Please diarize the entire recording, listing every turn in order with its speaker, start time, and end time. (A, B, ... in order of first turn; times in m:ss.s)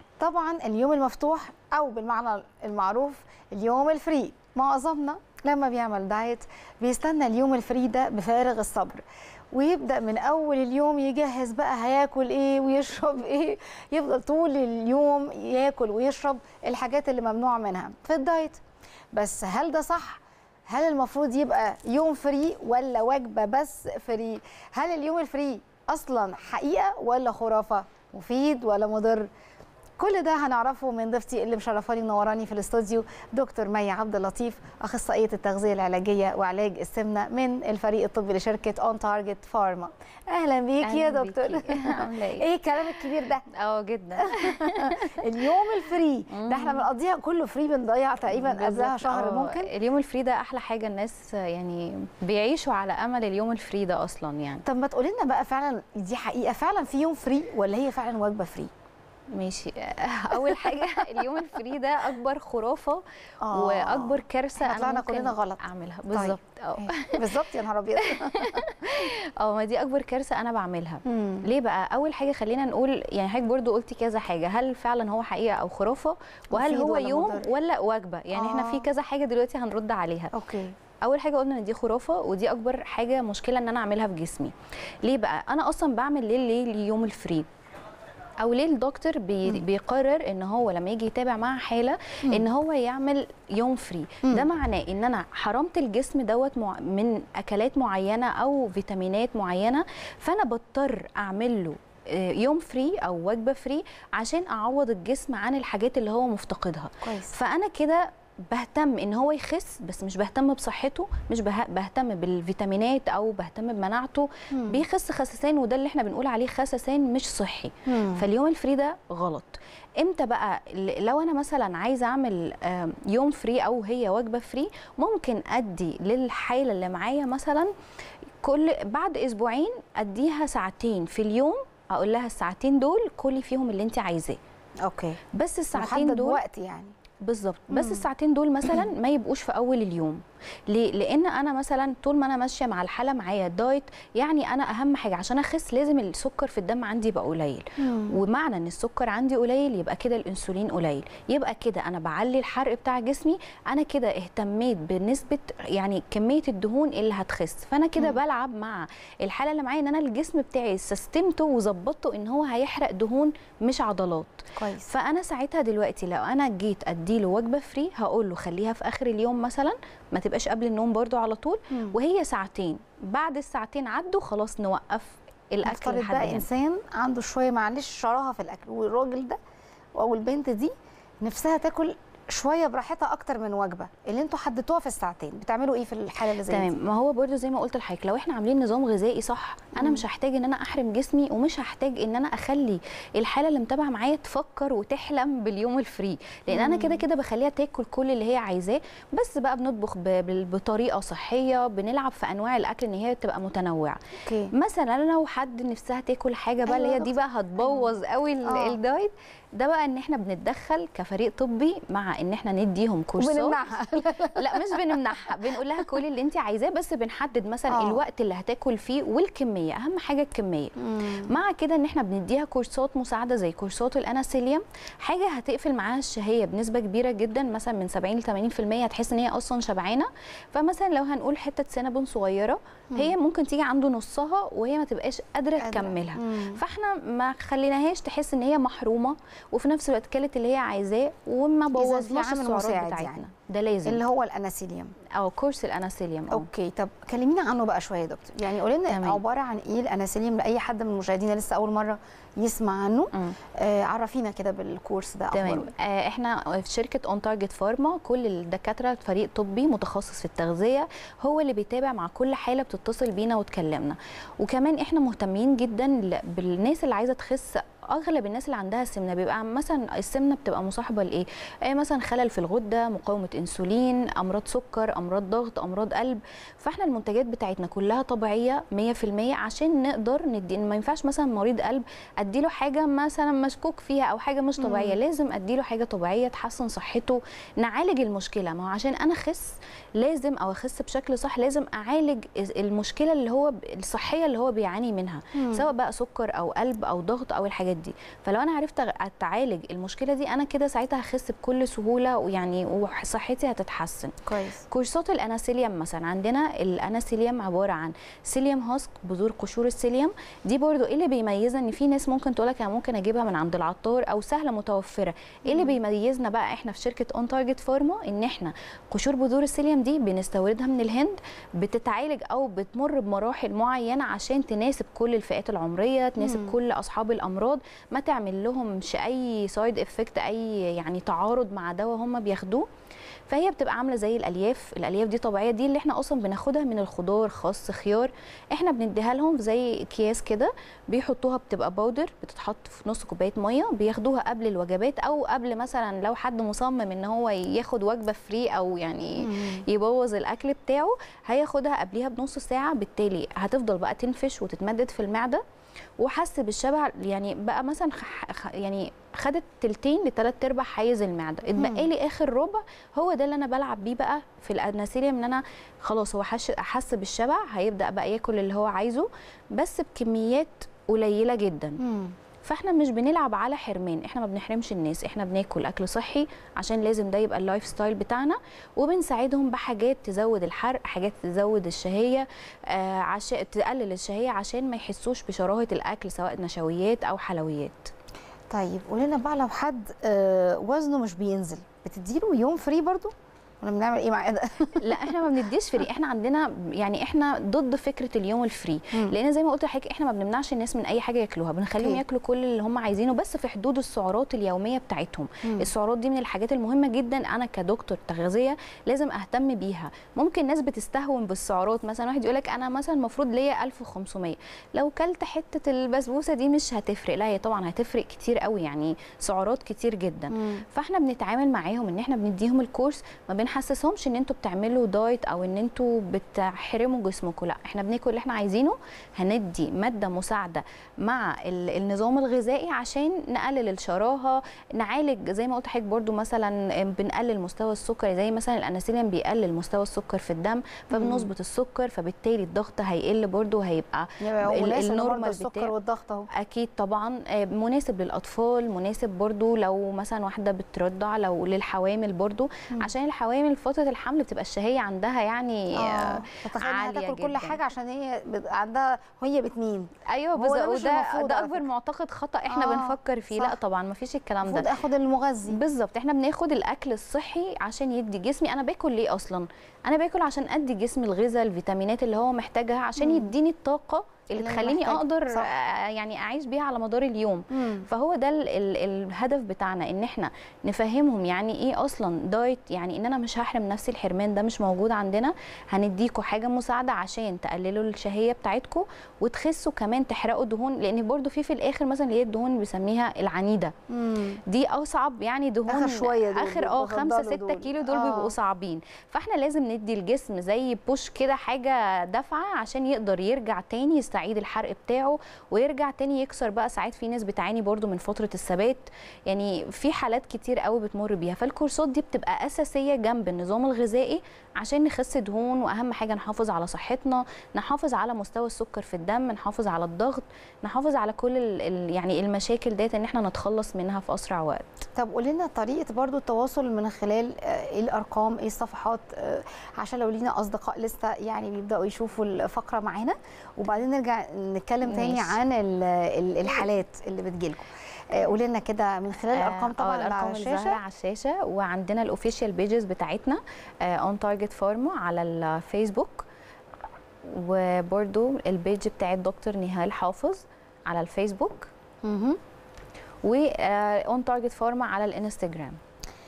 0:00.2-0:09.0 A
0:09.5-0:18.6 A
0:19.1-0:29.3 A
0:30.0-0:43.4 A
0:40.8-0:46.9 B
0:44.1-0:49.7 A
0:48.3-0:54.6 B
0:54.6-0:58.7 A
0:59.3-1:20.3 B
1:00.3-1:01.2 A
1:03.4-1:08.6 A
1:11.0-1:11.5 A
1:16.5-1:17.5 A
1:18.3-1:18.8 A
1:20.3-1:20.7 A
1:21.0-1:24.5 B
1:25.0-1:27.5 B
1:28.4-2:07.7 B
1:32.2-1:32.5 A
1:34.2-1:34.5 A
1:47.0-1:47.4 A
1:54.5-1:54.8 A
1:57.8-1:58.3 A
2:08.4-2:14.4 B
2:14.8-2:16.9 A
2:15.3-2:16.4 B
2:17.2-2:56.4 B
2:17.7-2:18.1 A
2:27.8-2:28.2 A
2:44.5-2:44.9 A
2:51.7-2:52.0 A
2:55.6-2:59.4 A
3:00.0-3:06.8 A
3:06.5-3:33.6 B
3:09.7-3:10.0 A
3:16.5-3:17.0 A
3:24.2-3:24.5 A
3:26.6-3:28.8 A
3:33.2-3:36.0 A
3:34.4-3:40.7 B
3:37.7-3:38.0 A
3:40.8-3:41.4 A
3:41.3-4:04.0 B
3:55.6-3:56.6 A
4:01.7-4:03.2 A
4:03.8-4:04.9 A
4:05.1-4:06.5 B
4:06.3-4:15.7 A
4:08.9-4:09.2 B
4:13.1-4:13.4 B
4:15.3-5:04.2 B
4:44.6-4:45.0 A
4:55.3-4:55.7 A
5:04.2-5:04.6 A
5:04.7-5:32.7 B
5:15.5-5:15.8 A
5:26.2-5:26.6 A
5:33.3-5:55.4 B
5:49.2-5:49.6 A
5:56.0-6:11.8 B
6:01.6-6:01.9 A
6:11.8-6:12.1 A
6:12.4-6:27.9 B
6:28.5-6:35.2 A
6:34.8-7:25.7 B
6:41.7-6:42.0 A
6:45.4-6:45.7 A
7:00.3-7:00.6 A
7:20.9-7:21.3 A
7:24.2-7:26.3 A
7:26.3-7:37.6 B
7:35.7-7:41.6 A
7:40.1-7:44.7 B
7:42.5-7:43.6 A
7:44.4-7:45.6 A
7:45.5-8:13.7 B
7:53.0-7:53.3 A
7:54.3-7:55.5 A
7:57.5-7:57.9 A
8:13.9-8:14.4 A
8:14.5-8:44.8 B
8:15.7-8:18.3 A
8:44.9-9:00.8 A
8:54.8-8:55.4 B
8:59.3-9:06.3 B
9:07.2-9:11.7 B
9:12.0-9:12.4 A
9:13.2-9:15.8 B